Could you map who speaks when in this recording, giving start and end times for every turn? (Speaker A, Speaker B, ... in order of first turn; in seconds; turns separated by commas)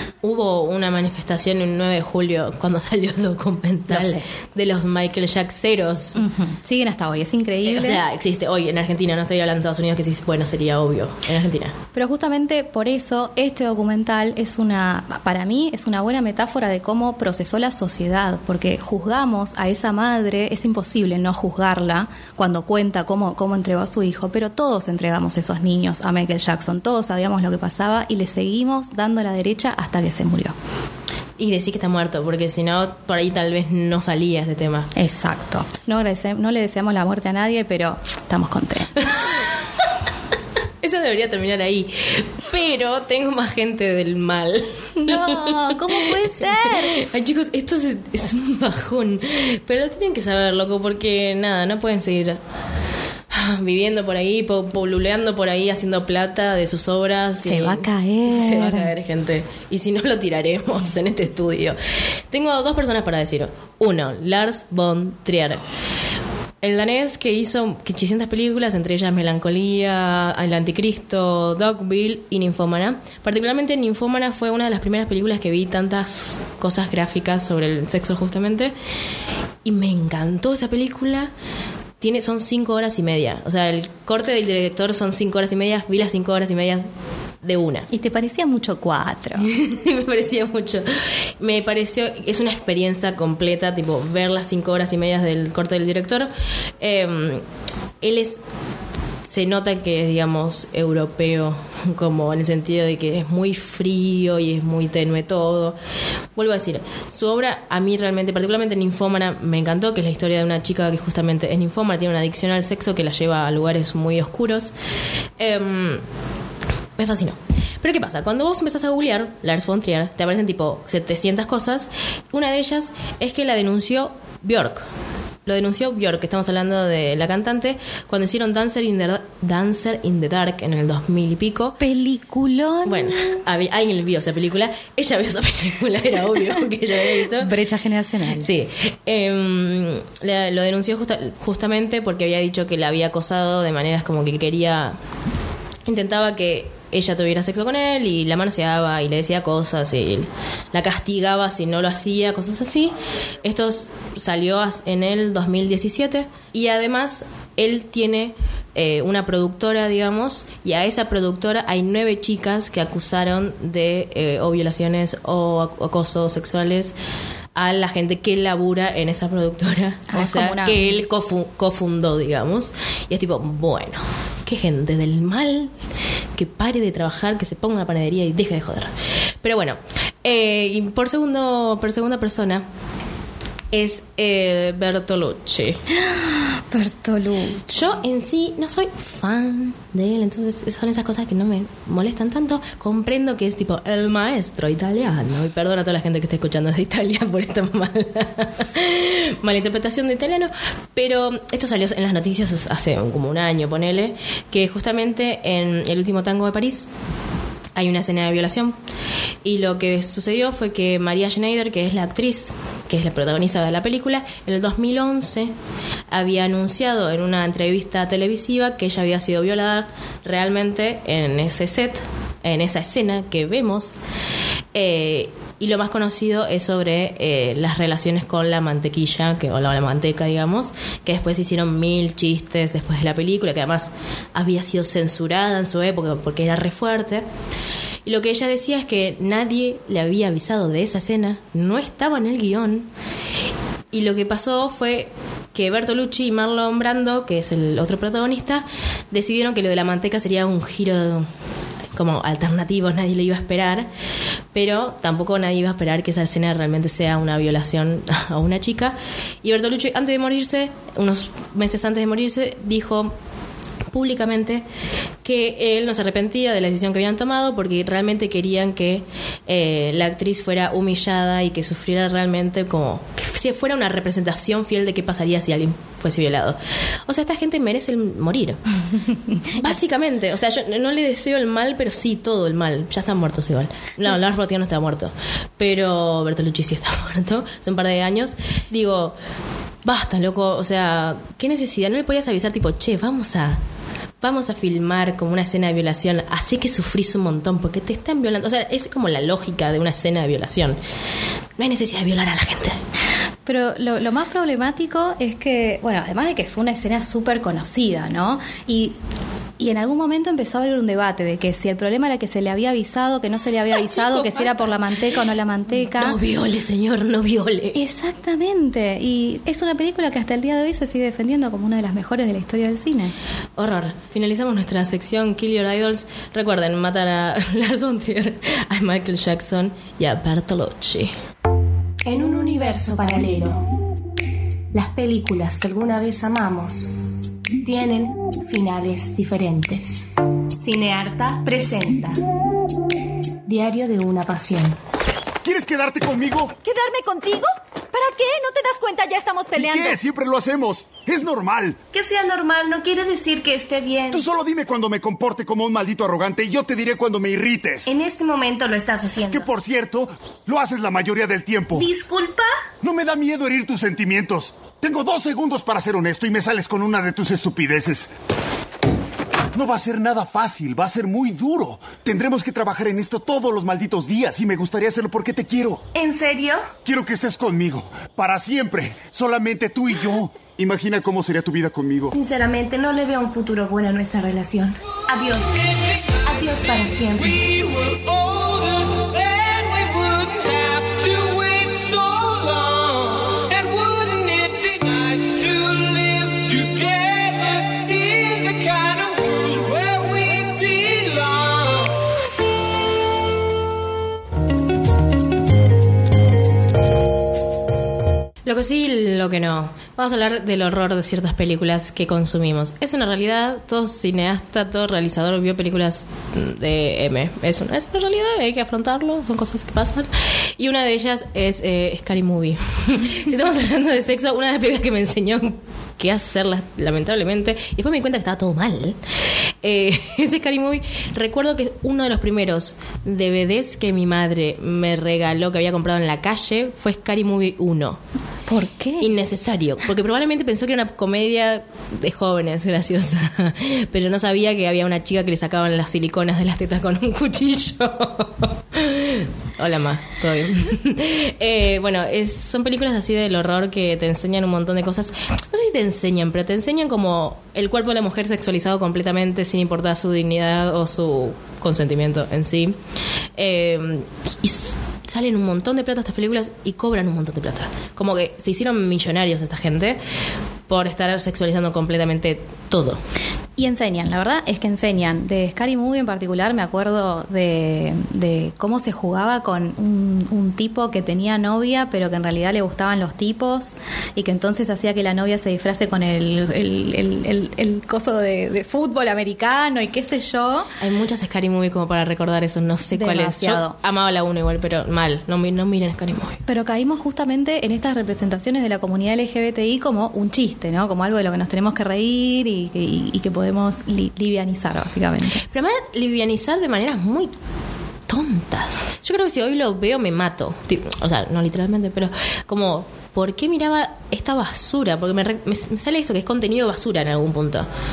Speaker A: 0.2-6.2, Speaker B: 3.9-4.2, Speaker B: 6.2-8.0, Speaker A: 7.6-11.7, Speaker B: 11.9-30.5, Speaker A: 31.4-34.9, Speaker B: 34.9-39.0, Speaker A: 40.8-52.4, Speaker B: 45.0-47.0, Speaker A: 53.3-61.8, Speaker B: 57.4-58.9, Speaker A: 62.3-65.6, Speaker A: 66.6-78.7, Speaker A: 79.6-81.3, Speaker A: 82.0-86.9, Speaker A: 87.4-87.9, Speaker B: 87.9-89.5, Speaker A: 89.4-90.8, Speaker A: 91.4-97.4, Speaker A: 98.0-98.4, Speaker A: 99.2-105.8, Speaker A: 106.3-114.7, Speaker A: 115.4-116.0, Speaker A: 117.0-124.8, Speaker A: 125.5-131.8, Speaker B: 131.8-133.3, Speaker A: 132.8-137.5, Speaker B: 137.3-138.5, Speaker A: 138.4-145.0, Speaker A: 145.9-166.9, Speaker A: 167.5-175.7, Speaker B: 170.1-171.0, Speaker A: 176.3-178.9, Speaker A: 179.4-182.6, Speaker A: 183.7-185.8, Speaker B: 185.9-188.0, Speaker A: 187.7-206.9, Speaker A: 207.7-208.7, Speaker A: 209.4-215.5, Speaker A: 216.1-223.9, Speaker A: 224.7-237.2, Speaker A: 238.0-242.9, Speaker A: 243.9-251.3, Speaker A: 251.9-253.9, Speaker A: 254.5-263.1, Speaker A: 263.9-264.6, Speaker A: 265.2-278.6, Speaker B: 279.3-279.7, Speaker A: 279.5-289.1, Speaker A: 289.8-293.6, Speaker A: 294.2-300.8, Speaker A: 301.6-302.8, Speaker B: 303.4-308.9, Speaker B: 309.6-316.2, Speaker A: 313.8-314.7, Speaker A: 315.8-317.8, Speaker B: 317.7-323.1, Speaker A: 323.6-331.1, Speaker C: 332.0-333.6, Speaker C: 334.7-336.9, Speaker C: 337.6-340.1, Speaker C: 340.6-342.2, Speaker C: 343.4-344.8, Speaker D: 345.4-346.6, Speaker E: 346.6-350.0, Speaker D: 349.5-351.8, Speaker C: 351.9-354.3, Speaker D: 354.1-357.9, Speaker C: 357.9-359.5, Speaker D: 359.3-361.9, Speaker C: 361.7-362.5, Speaker D: 362.8-368.1, Speaker D: 369.5-375.8, Speaker C: 375.9-376.7, Speaker D: 376.8-382.1, Speaker C: 382.1-394.9, Speaker C: 396.5-396.8, Speaker A: 408.4-429.0, Speaker A: 429.6-438.0, Speaker B: 438.5-439.1, Speaker A: 439.0-462.8, Speaker A: 463.4-470.0, Speaker A: 470.7-473.0, Speaker B: 473.6-490.7, Speaker A: 490.8-496.4, Speaker B: 492.9-493.8, Speaker B: 496.5-505.4, Speaker A: 505.4-507.3, Speaker A: 508.1-517.7